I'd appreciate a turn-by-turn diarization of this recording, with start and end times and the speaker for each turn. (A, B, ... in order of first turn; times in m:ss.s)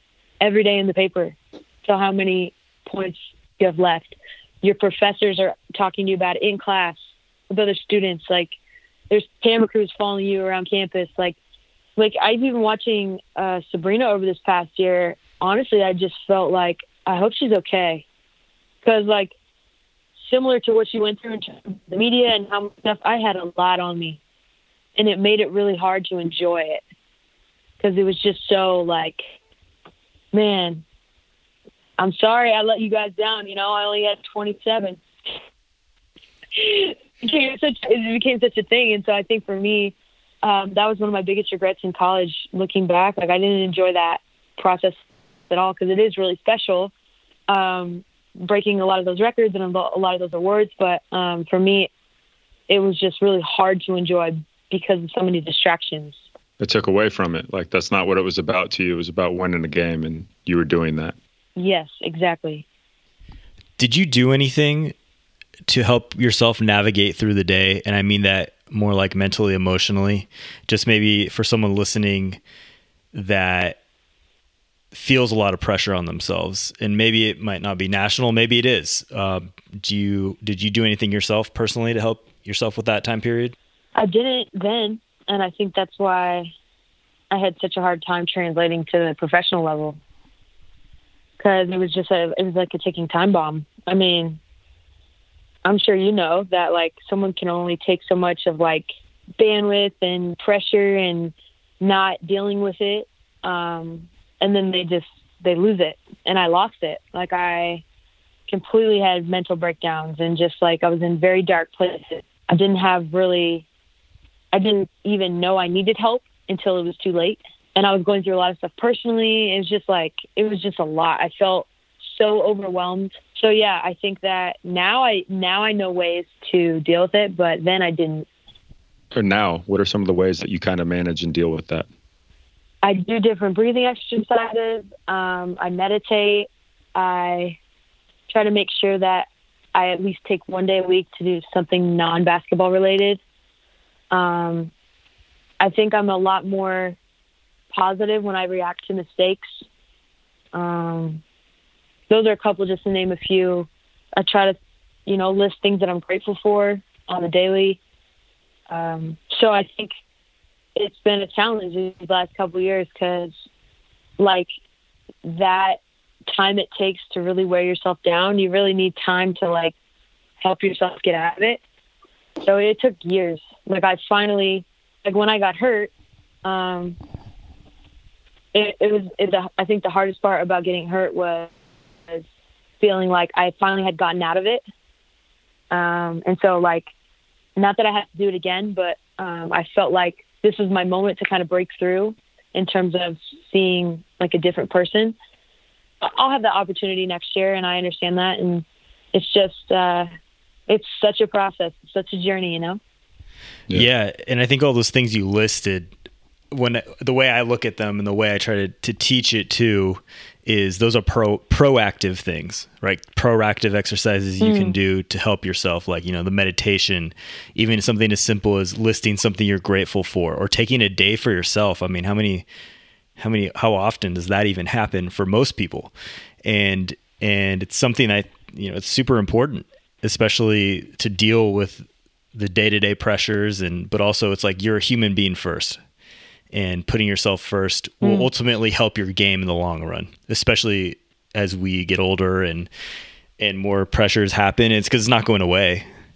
0:00.4-0:07.0 A
0:07.5-0:08.6 A
0:09.1-0:11.4 A
0:12.0-0:18.0 A
0:18.8-0:19.3 A
0:20.2-0:24.2 A
0:25.0-0:26.8 A
0:27.8-0:29.2 A
0:30.3-0:30.8 A
0:32.0-0:35.0 A
0:36.5-0:45.0 A
0:45.5-0:46.9 A
0:47.5-0:51.9 A
0:52.7-0:56.2 A
0:56.6-1:01.2 B
1:01.6-1:02.6 A
1:03.8-1:04.9 C
1:05.7-1:12.4 C
1:13.1-1:13.8 C
1:14.9-1:23.6 C
1:24.0-1:26.5 A
1:27.3-1:30.0 A
1:31.4-1:34.4 A
1:35.6-1:38.9 A
1:39.4-1:47.8 A
1:48.5-1:53.7 A
1:54.5-2:08.3 A
2:09.1-2:11.9 B
2:12.8-2:17.6 A
2:18.3-2:23.2 A
2:24.1-2:24.7 A
2:25.6-2:27.0 A
2:27.7-2:29.6 A
2:30.5-2:31.2 A
2:32.1-2:37.8 A
2:38.7-2:39.9 A
2:40.8-2:43.3 A
2:44.2-2:44.5 A
2:45.2-2:49.7 A
2:50.4-2:51.6 A
2:52.4-2:55.9 A
2:56.4-2:57.0 A
2:58.5-3:01.5 A
3:02.8-3:04.6 A
3:05.7-3:06.9 A
3:07.6-3:15.2 A
3:16.0-3:20.1 A
3:20.7-3:22.8 A
3:23.7-3:25.9 C
3:26.5-3:42.4 C
3:34.4-3:34.8 A
3:43.2-3:45.9 C
3:46.4-3:55.8 C
3:56.5-4:02.7 C
3:58.0-3:58.3 A
4:03.4-4:05.9 C